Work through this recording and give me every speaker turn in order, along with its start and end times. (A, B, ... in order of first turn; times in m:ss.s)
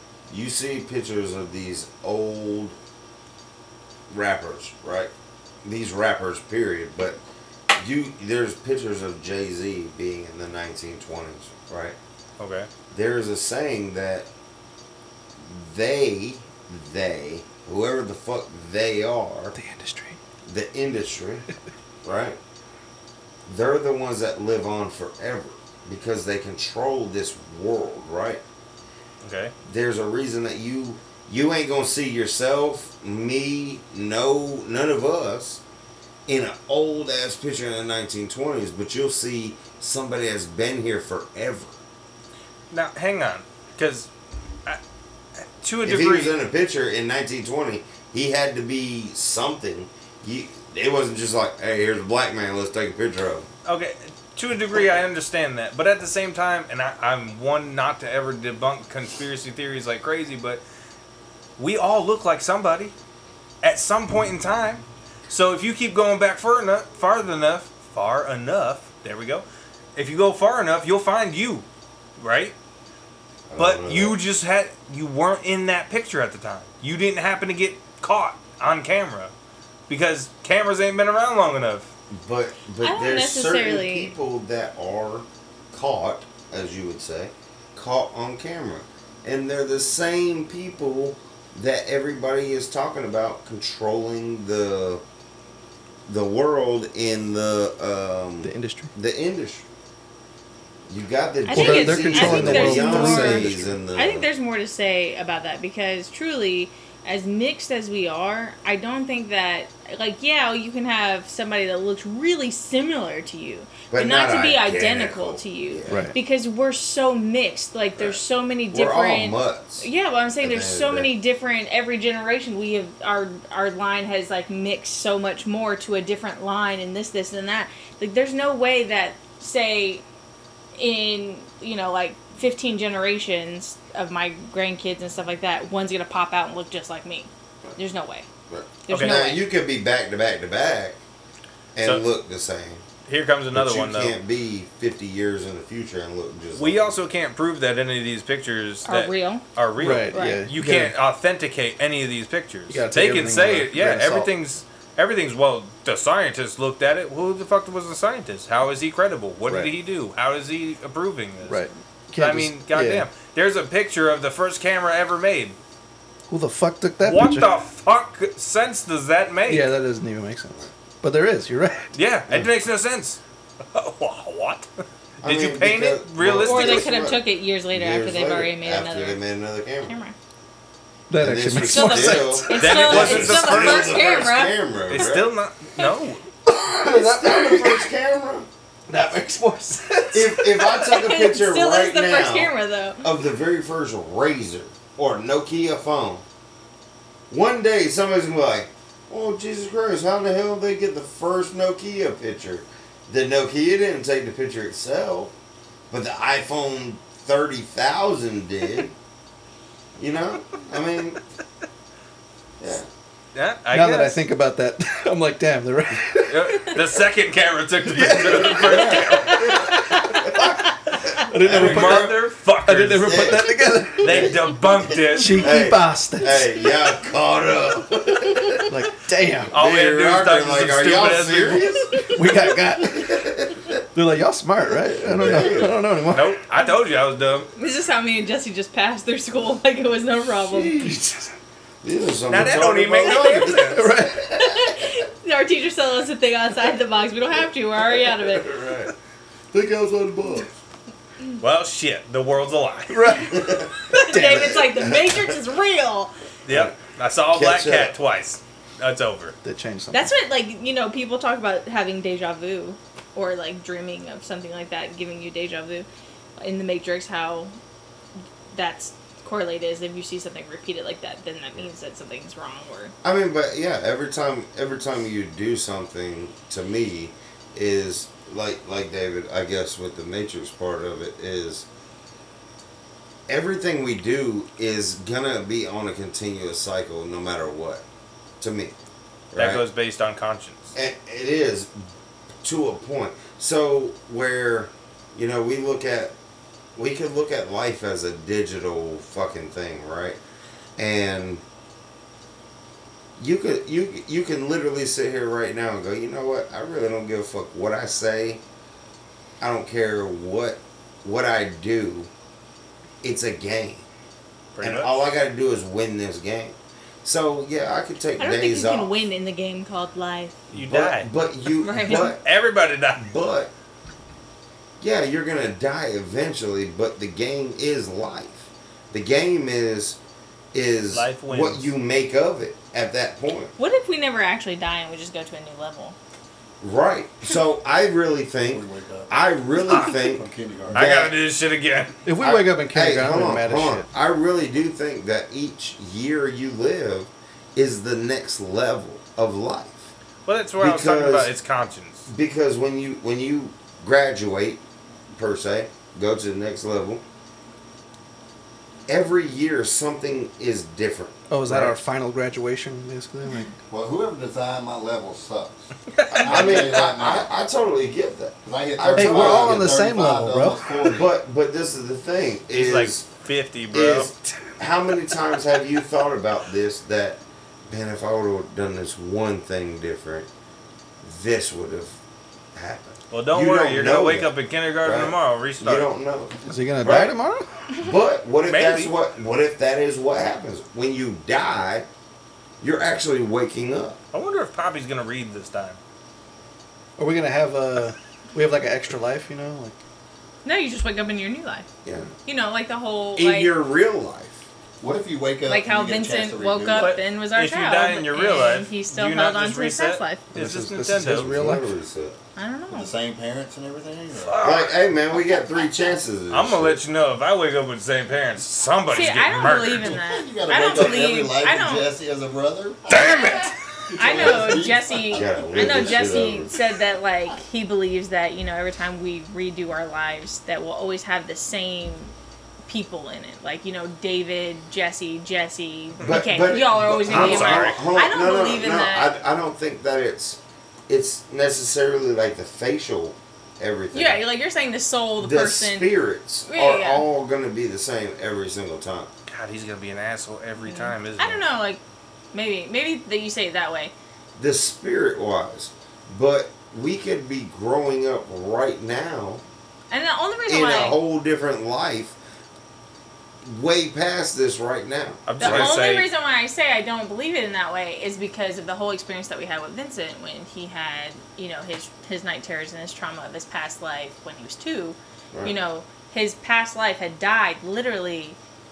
0:00.3-0:02.8 A
0:04.1-0:05.1 A
0:05.6-0:07.2 A
0:07.7-0:12.0 A
0:12.4-0:12.7 B
0:12.9-0:14.3 A
0:15.4-0:19.6 A
0:19.6-0:20.2 C
0:20.4-0:21.5 A
0:22.0-0:22.4 A
0:23.5-0:28.4 A
0:29.2-0:29.5 B
0:29.6-0:35.6 A
0:36.3-0:41.8 A
0:42.7-0:44.1 B
0:45.6-0:46.3 B
0:45.8-0:53.5 A
0:53.7-1:00.6 B
1:01.6-1:02.9 B
1:03.6-1:09.4 B
1:10.0-1:11.7 B
1:12.2-1:12.6 B
1:13.5-1:14.2 A
1:13.6-1:19.3 B
1:19.9-1:21.9 B
1:22.1-1:35.0 A
1:22.8-1:24.1 D
1:36.1-1:39.6 A
1:38.4-1:38.9 C
1:40.9-1:44.3 A
1:41.5-2:10.0 D
1:41.5-1:43.8 C
1:53.9-1:56.1 A
1:55.9-1:56.2 C
1:58.7-1:59.9 A
2:00.4-2:01.1 A
2:10.8-2:18.3 D
2:18.5-2:21.0 A
2:18.8-2:19.4 D
2:18.9-2:19.2 B
2:21.8-2:22.8 A
2:21.8-2:22.1 B
2:23.1-2:24.2 B
2:23.5-2:27.0 A
2:26.6-2:41.6 B
2:28.8-2:29.5 D
2:29.8-2:31.0 C
2:30.1-2:30.4 D
2:32.7-2:34.3 C
2:39.5-2:39.7 C
2:41.5-2:43.1 C
2:42.2-2:45.6 B
2:46.3-2:47.5 C
2:47.0-2:49.7 B
2:49.5-2:51.9 C
2:52.0-2:53.2 B
2:53.7-2:54.7 B
2:55.2-2:57.0 B
2:55.2-2:59.9 A
2:56.4-2:59.2 D
2:59.8-3:00.2 D
3:01.1-3:02.9 C
3:01.2-3:05.3 A
3:01.7-3:05.0 D
3:02.5-3:04.0 B
3:04.9-3:06.2 B
3:06.5-3:07.9 C
3:06.7-3:08.5 A
3:08.9-3:10.9 C
3:10.1-3:16.2 A
3:10.8-3:13.0 D
3:17.3-3:25.3 A
3:25.9-3:28.9 A
3:30.0-3:31.2 A
3:32.6-3:32.9 A
3:33.4-3:34.2 B
3:33.7-3:37.0 C
3:36.3-3:39.9 B
3:37.8-3:40.7 C
3:38.4-3:42.1 A
3:41.2-3:44.4 C
3:41.4-3:43.3 B
3:43.1-3:43.4 A
3:44.0-3:45.6 B
3:44.0-3:44.4 A
3:44.9-3:48.7 A
3:45.1-3:46.5 C
3:48.7-3:49.5 C
3:49.5-3:51.8 B
3:49.5-3:53.8 A
3:52.2-3:53.1 C
3:54.0-3:56.4 C
3:54.9-3:55.8 A
3:56.1-3:57.5 B
3:57.6-4:00.9 D
4:00.5-4:01.3 A
4:00.7-4:01.2 C
4:01.8-4:04.8 A
4:02.3-4:03.9 B
4:03.0-4:03.6 D
4:03.7-4:04.3 C
4:04.3-4:08.5 D
4:07.9-4:08.9 A
4:09.5-4:10.5 A
4:11.4-4:13.3 B
4:12.9-4:14.9 C
4:13.3-4:15.2 A
4:13.9-4:16.1 D
4:16.5-4:19.4 B
4:16.5-4:16.7 A
4:17.3-4:18.0 A
4:19.4-4:20.1 C
4:19.9-4:27.5 D
4:28.5-4:32.9 D
4:33.0-4:41.7 A
4:43.3-4:47.8 A
4:48.4-4:48.8 A
4:49.3-4:49.6 A
4:49.4-4:50.7 B
4:50.8-4:51.8 A
4:52.4-4:56.1 A
4:56.8-5:00.2 A
5:00.8-5:01.4 A
5:03.2-5:08.4 A
5:09.4-5:12.1 A
5:13.0-5:13.8 A
5:14.6-5:15.0 B
5:14.6-5:18.9 A
5:18.2-5:20.4 D
5:20.5-5:21.1 B
5:20.5-5:22.2 A
5:21.6-5:22.1 D
5:21.8-5:23.1 B
5:23.0-5:23.5 A
5:24.8-5:30.0 A
5:30.5-5:33.5 A
5:30.9-5:31.7 B
5:33.6-5:36.0 D
5:36.6-5:41.2 A
5:38.5-5:39.2 E
5:39.7-5:40.8 E
5:40.7-5:42.0 B
5:42.0-5:43.9 C
5:42.2-5:49.9 A
5:50.3-5:52.1 B
5:50.6-5:51.3 A
5:52.1-5:57.0 A
5:58.9-6:01.8 A
6:01.3-6:03.5 C
6:03.7-6:07.3 E
6:06.0-6:06.7 B
6:06.2-6:09.8 A
6:08.5-6:11.0 E
6:08.9-6:10.7 C
6:10.8-6:13.1 A
6:12.5-6:14.2 B
6:13.7-6:20.3 A
6:21.0-6:22.0 A
6:22.6-6:24.3 A
6:23.1-6:25.9 B
6:24.8-6:27.1 A
6:26.5-6:27.5 C
6:27.8-6:31.9 A
6:28.4-6:28.9 B
6:32.6-6:34.0 A
6:34.1-6:35.8 B
6:37.0-6:39.8 C
6:40.4-6:41.7 D
6:41.8-6:42.1 A
6:42.2-6:43.5 D
6:43.2-6:44.4 A
6:44.8-6:47.0 E
6:45.5-6:50.2 D
6:46.8-6:51.4 B
6:50.3-6:51.7 C
6:51.1-6:52.2 A
6:52.4-6:53.0 D
6:52.7-6:54.5 E
6:54.1-6:54.8 B
6:54.4-6:56.8 A
6:56.3-7:00.0 B
6:58.9-7:01.9 D
6:59.8-7:03.2 E
7:02.9-7:03.6 B
7:02.9-7:12.1 D
7:03.9-7:06.2 E
7:05.2-7:06.6 A
7:12.7-7:19.1 D
7:16.0-7:24.2 A
7:17.1-7:17.9 B
7:23.9-7:25.9 D
7:25.2-7:29.1 A
7:26.5-7:27.0 D
7:29.3-7:31.4 B
7:30.6-7:31.8 D
7:32.3-7:33.9 D
7:34.4-7:39.4 A
7:39.9-7:41.0 D
7:40.5-7:42.2 A
7:43.4-7:45.8 A
7:45.3-7:46.1 B
7:45.4-7:58.4 D